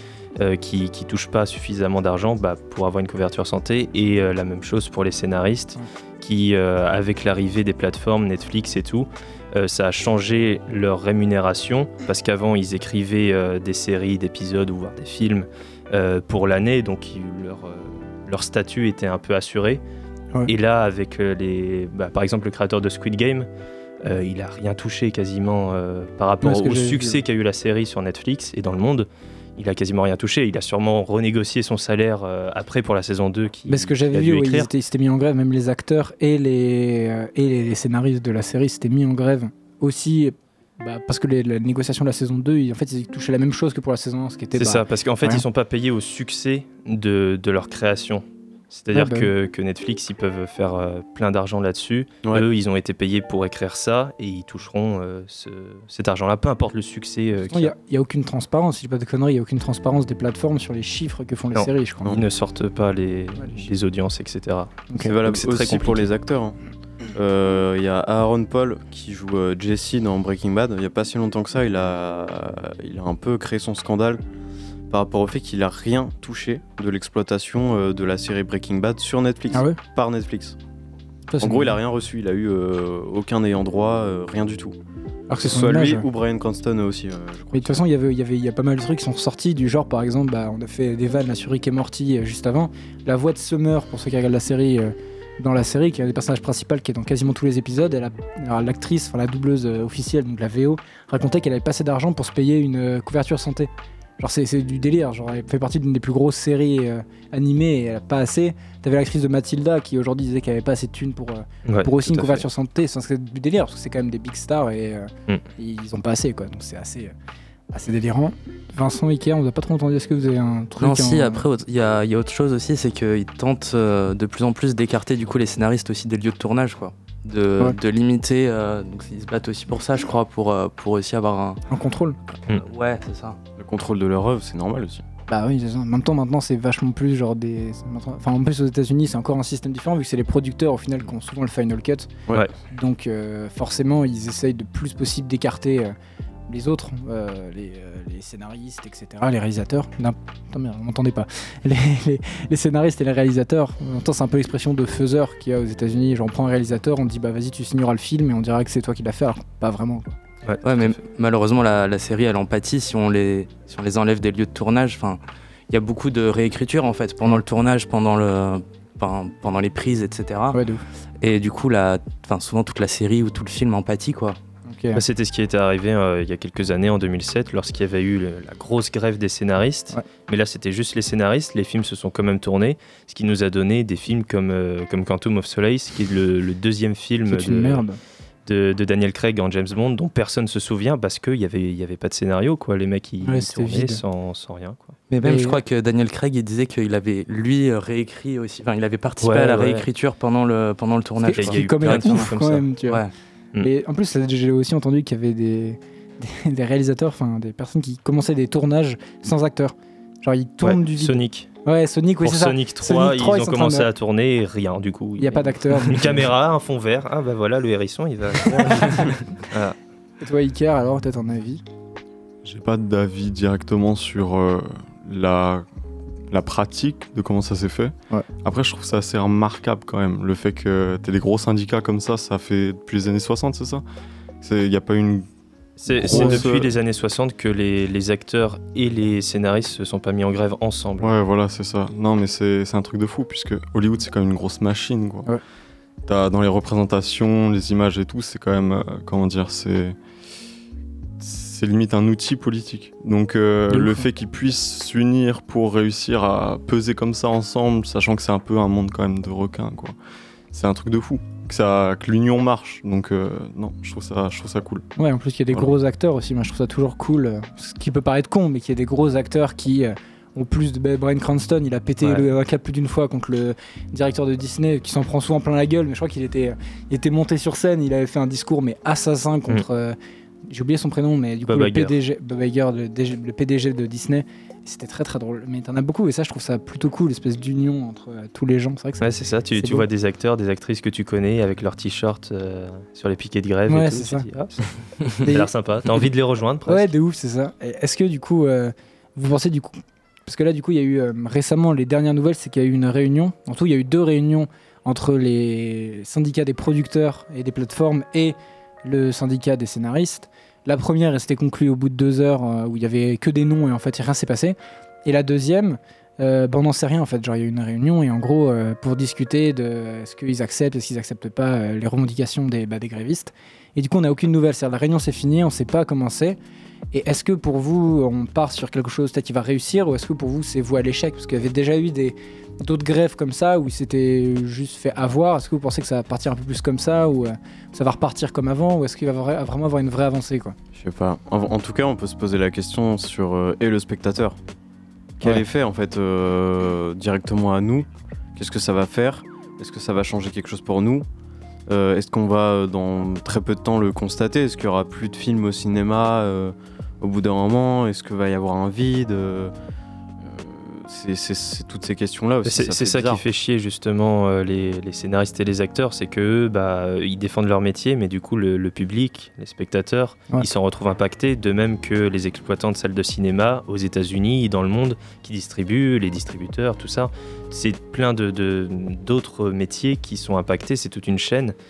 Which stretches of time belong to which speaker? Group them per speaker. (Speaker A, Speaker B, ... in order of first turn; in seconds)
Speaker A: 0.4-19.8, 20.4-23.5, 24.0-34.7, 44.5-57.7, 61.5-66.1, 111.7-112.4, 160.4-160.9, 174.9-187.8, 188.4-195.0, 199.2-199.9, 201.3-202.7, 210.6-211.5, 212.2-219.8, 235.8-241.1, 281.5-282.0, 289.0-296.9, 362.4-381.5
Speaker B: 26.4-27.2, 33.7-45.4, 48.9-49.3, 57.5-62.1, 64.9-65.2, 79.5-79.8, 81.3-81.8, 85.3-86.0, 87.5-117.1, 117.7-121.4, 131.7-132.2, 135.3-142.1, 142.7-145.9, 146.5-160.1, 170.5-170.8, 174.7-175.0, 187.3-188.0, 193.2-194.0, 195.2-195.6, 201.2-203.0, 203.6-213.9, 215.2-216.3, 218.5-219.2, 220.2-221.6, 236.1-236.4, 253.7-254.1, 265.0-289.9, 293.7-294.2, 295.2-295.5, 296.6-326.4, 326.9-340.5
Speaker C: 65.0-66.6, 67.1-74.2, 74.9-80.6, 81.4-84.8, 85.4-87.8, 133.6-135.0, 340.7-344.4, 345.2-351.1, 351.7-359.5, 360.2-363.2
Speaker D: 120.8-131.6, 132.5-133.4, 160.6-170.6, 171.2-174.4, 195.1-202.3, 202.8-203.1
Speaker E: 222.4-225.6, 226.3-233.8, 234.4-235.3, 235.9-236.7, 241.0-245.3, 246.1-250.0, 251.2-260.0, 260.5-264.9